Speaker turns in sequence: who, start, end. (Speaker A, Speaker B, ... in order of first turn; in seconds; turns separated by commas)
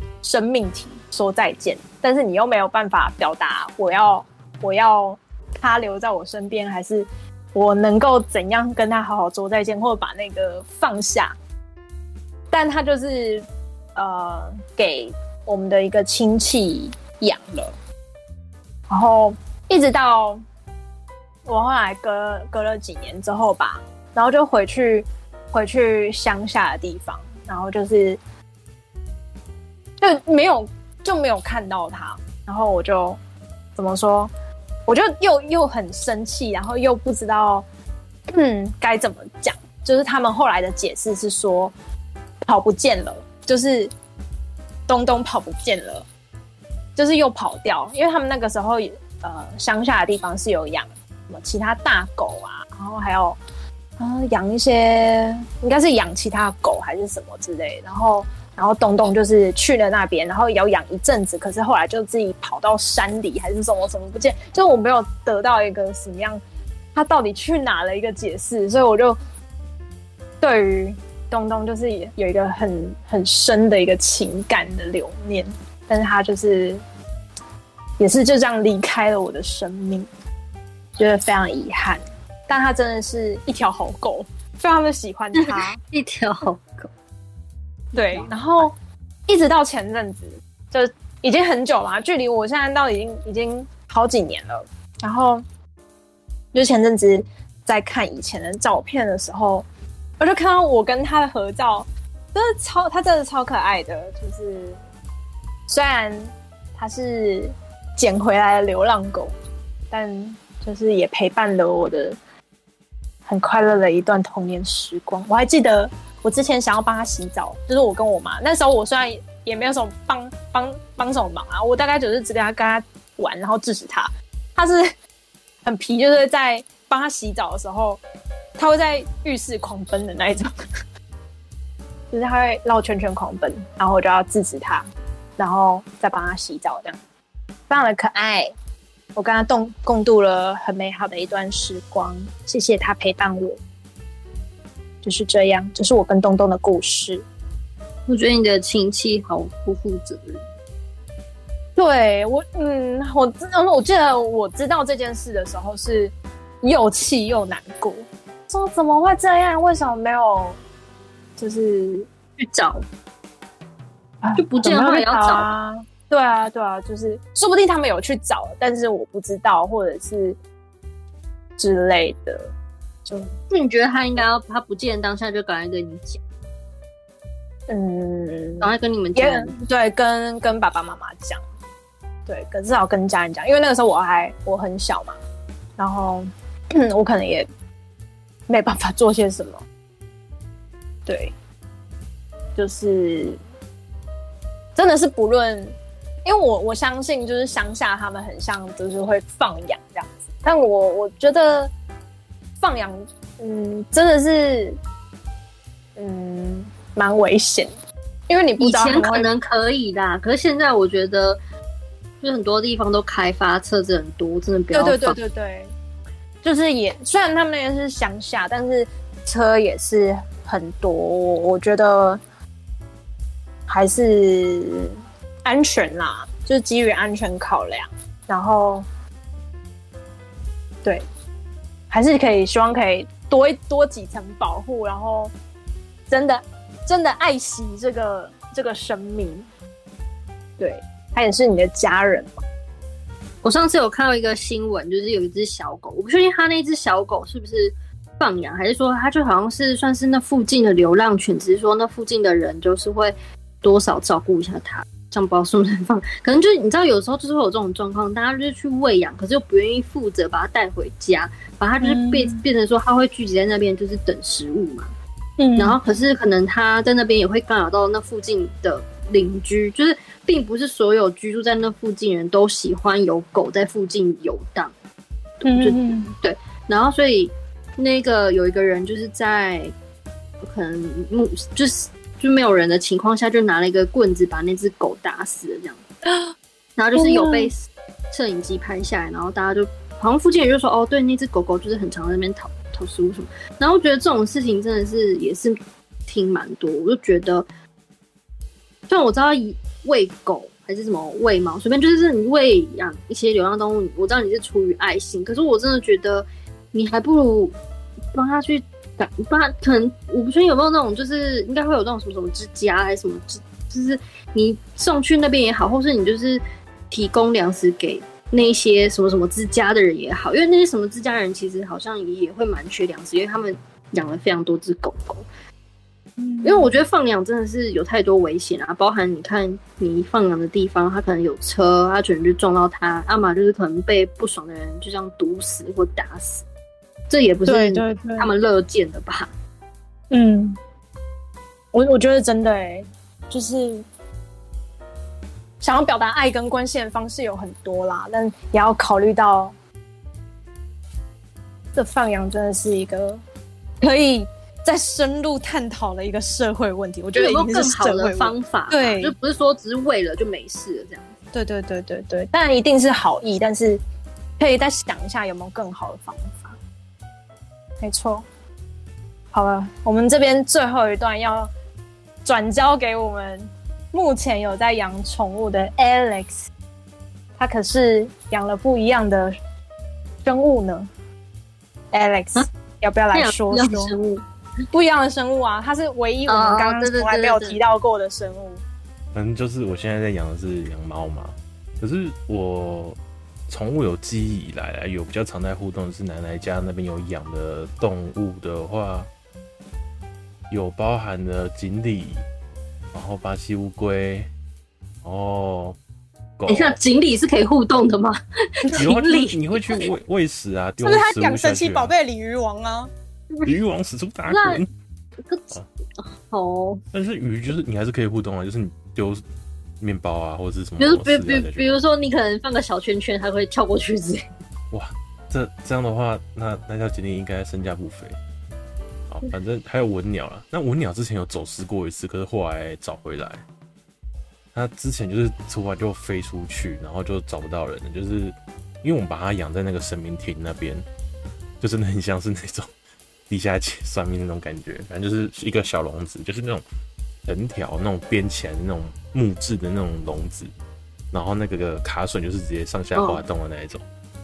Speaker A: 0.2-11.3, Speaker A: 12.5-13.4, Speaker A: 14.0-17.7, Speaker A: 18.9-20.4, Speaker A: 21.5-28.2, Speaker A: 30.0-33.2, Speaker A: 33.8-34.3, Speaker A: 34.9-37.7, Speaker A: 38.3-41.7, Speaker A: 42.5-43.9, Speaker A: 44.9-46.1, Speaker A: 47.0-53.4, Speaker A: 54.0-66.4, Speaker A: 67.0-69.2, Speaker A: 70.4-76.8, Speaker A: 78.0-80.1, Speaker A: 81.0-85.8, Speaker B: 85.4-86.9, Speaker B: 87.9-88.4, Speaker A: 87.9-88.7, Speaker A: 89.3-95.4, Speaker A: 96.5-99.7, Speaker A: 100.2-104.8, Speaker A: 105.7-109.3, Speaker A: 109.9-112.2, Speaker A: 113.3-124.9, Speaker A: 125.6-128.0, Speaker A: 128.6-130.5, Speaker A: 132.1-134.9, Speaker A: 135.4-137.0, Speaker A: 137.7-138.5, Speaker A: 139.2-143.6, Speaker A: 145.0-147.3, Speaker B: 148.1-150.4, Speaker A: 151.8-160.6, Speaker A: 161.4-162.1, Speaker B: 162.4-162.8, Speaker A: 164.2-170.4, Speaker B: 164.4-165.5, Speaker A: 171.6-172.5, Speaker B: 173.5-176.2, Speaker A: 177.7-181.4, Speaker B: 178.6-179.5, Speaker A: 182.3-185.2, Speaker A: 185.8-187.5, Speaker A: 188.5-189.6, Speaker A: 191.1-191.3, Speaker A: 192.6-193.4, Speaker A: 194.8-195.7, Speaker A: 196.2-201.7, Speaker A: 202.6-204.8, Speaker A: 206.0-207.7, Speaker A: 208.3-209.3, Speaker B: 208.6-211.4, Speaker B: 212.2-215.2, Speaker A: 214.7-215.7, Speaker A: 216.4-222.2, Speaker A: 223.7-224.9, Speaker A: 225.4-228.8, Speaker A: 231.9-235.3, Speaker A: 236.1-239.5, Speaker A: 240.6-242.4, Speaker B: 243.4-264.9, Speaker A: 261.8-262.4, Speaker A: 265.4-265.8, Speaker B: 265.6-274.7, Speaker B: 275.4-279.7, Speaker A: 275.4-276.1, Speaker B: 280.4-285.8, Speaker B: 286.8-297.5, Speaker A: 286.9-287.5, Speaker B: 298.9-307.6, Speaker B: 308.1-325.3, Speaker A: 326.2-326.8, Speaker B: 326.4-336.4, Speaker B: 337.1-339.3, Speaker A: 337.5-338.3, Speaker A: 340.1-340.6, Speaker A: 341.7-343.8, Speaker A: 345.6-349.5, Speaker A: 351.8-353.2, Speaker A: 353.8-359.1, Speaker B: 357.1-361.2, Speaker A: 361.3-363.8, Speaker A: 364.4-366.6, Speaker A: 367.8-368.2, Speaker A: 369.3-371.5, Speaker A: 372.2-376.5, Speaker A: 377.4-379.3, Speaker A: 380.2-380.9, Speaker A: 381.9-383.9, Speaker B: 383.1-384.2, Speaker A: 384.7-388.6, Speaker B: 386.3-387.6, Speaker C: 389.1-399.1, Speaker C: 400.5-402.3, Speaker C: 402.9-404.3, Speaker C: 405.0-405.8, Speaker C: 406.4-406.8, Speaker B: 406.5-409.9, Speaker C: 408.8-411.9, Speaker A: 410.8-412.9, Speaker C: 413.5-414.7, Speaker B: 414.3-414.6, Speaker B: 415.2-416.8, Speaker C: 416.9-419.2, Speaker C: 419.8-421.8, Speaker B: 420.8-424.3, Speaker C: 424.7-428.2, Speaker C: 429.1-433.4, Speaker C: 434.5-440.9, Speaker C: 441.6-442.7, Speaker C: 443.3-446.6, Speaker C: 447.2-450.5, Speaker C: 451.1-453.9, Speaker B: 453.0-453.2